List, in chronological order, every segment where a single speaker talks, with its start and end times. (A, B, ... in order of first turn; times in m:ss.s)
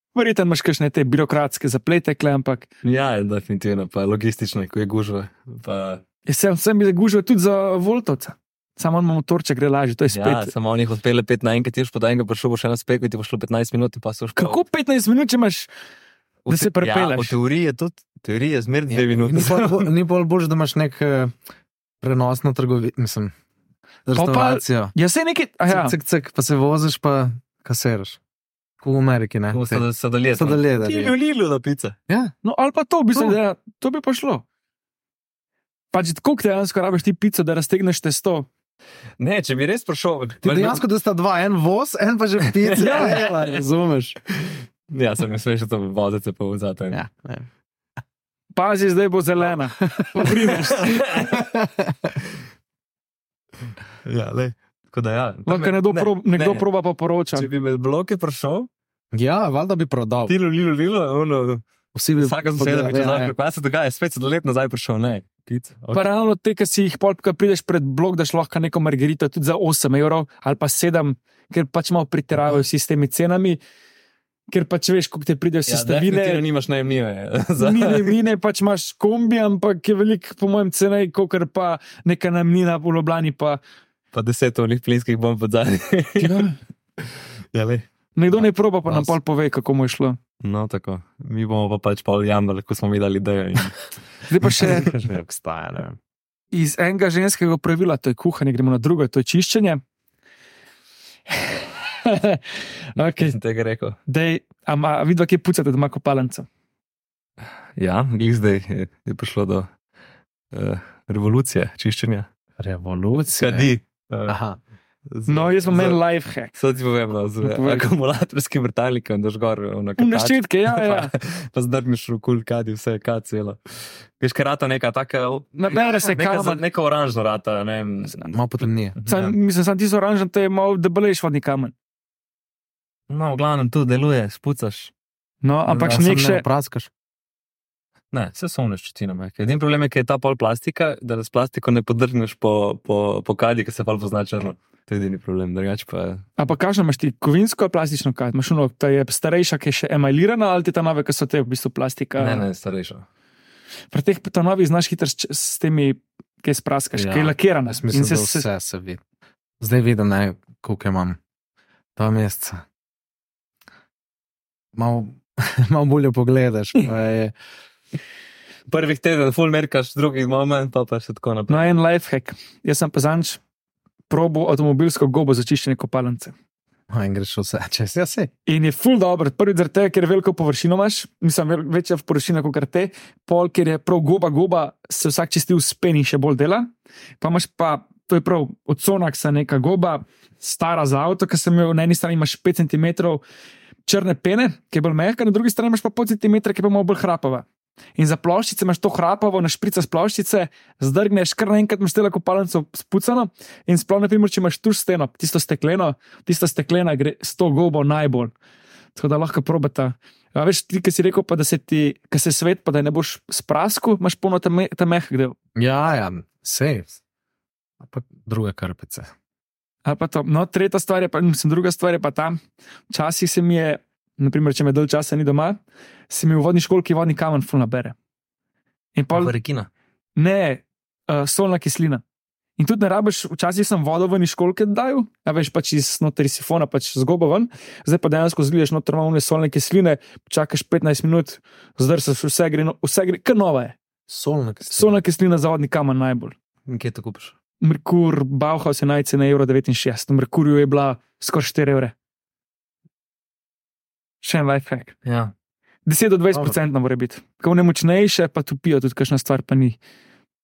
0:00.1-0:02.7 A
0:02.8-0:06.0 B
0:06.2-0:10.5 A
0:10.1-0:14.6 B
0:14.4-0:15.7 A
0:16.4-0:19.9 B
0:16.5-0:17.4 A
0:18.9-0:21.3 C
0:22.0-0:23.3 C
0:24.1-0:24.9 C
0:24.1-0:25.9 A
0:25.7-0:28.2 C
0:28.8-0:29.8 C
0:29.5-0:32.0 B
0:30.3-0:31.1 C
0:32.4-0:34.4 A
0:35.9-0:38.5 A
0:39.2-0:40.8 B
0:40.4-0:44.2 C
0:42.6-0:43.6 B
0:42.8-0:43.2 A
0:44.3-0:47.0 B
0:46.9-0:47.4 C
0:48.6-0:51.1 A
0:50.7-0:51.4 B
0:51.3-0:52.1 C
0:54.0-0:56.6 B
0:55.5-0:57.5 A
0:57.3-0:58.7 B
0:59.1-1:00.3 C
1:00.3-1:01.6 B
1:01.9-1:03.3 C
1:02.2-1:06.1 B
1:05.9-1:13.6 A
1:14.5-1:16.4 A
1:15.7-1:18.2 B
1:17.6-1:23.6 A
1:24.1-1:26.4 B
1:26.2-1:26.6 A
1:27.0-1:27.8 B
1:28.2-1:30.2 A
1:28.4-1:29.1 B
1:30.4-1:33.8 B
1:34.3-1:34.9 A
1:34.4-1:36.0 C
1:36.5-1:39.8 A
1:41.3-1:42.4 A
1:42.9-1:43.4 A
1:43.2-1:44.0 B
1:44.1-1:46.5 A
1:47.8-1:49.7 B
1:50.5-1:52.3 B
1:52.6-1:53.7 C
1:53.4-1:54.4 B
1:54.3-1:54.6 C
1:55.1-1:56.0 B
1:55.3-1:56.5 A
1:56.5-2:03.6 B
1:57.4-1:57.9 A
2:00.0-2:01.1 A
2:04.2-2:08.3 B
2:05.6-2:06.6 A
2:08.3-2:09.0 C
2:09.0-2:09.4 B
2:09.1-2:11.7 A
2:13.1-2:14.9 B
2:15.4-2:16.4 A
2:15.7-2:16.0 B
2:15.8-2:16.9 C
2:18.1-2:26.2 B
2:26.4-2:32.4 A
2:32.2-2:33.0 B
2:33.9-2:38.4 A
2:36.9-2:39.0 C
2:39.6-2:41.2 C
2:42.0-2:42.6 C
2:44.7-2:47.4 C
2:48.7-2:51.7 B
2:51.5-2:53.4 A
2:54.1-2:56.3 A
2:56.9-2:58.3 C
2:58.5-3:13.2 A
3:13.9-3:17.4 A
3:18.0-3:28.3 A
3:28.9-3:35.4 A
3:35.6-3:37.0 C
3:37.8-3:39.1 C
3:39.8-3:42.4 A
3:42.9-3:47.9 A
3:48.9-3:49.3 A
3:49.1-3:49.7 B
3:50.2-3:52.0 A
3:52.6-4:03.8 A
4:04.1-4:05.0 C
4:04.7-4:06.3 A
4:06.7-4:07.3 B
4:07.6-4:11.9 A
4:14.2-4:14.9 A
4:15.0-4:15.3 B
4:15.8-4:19.8 A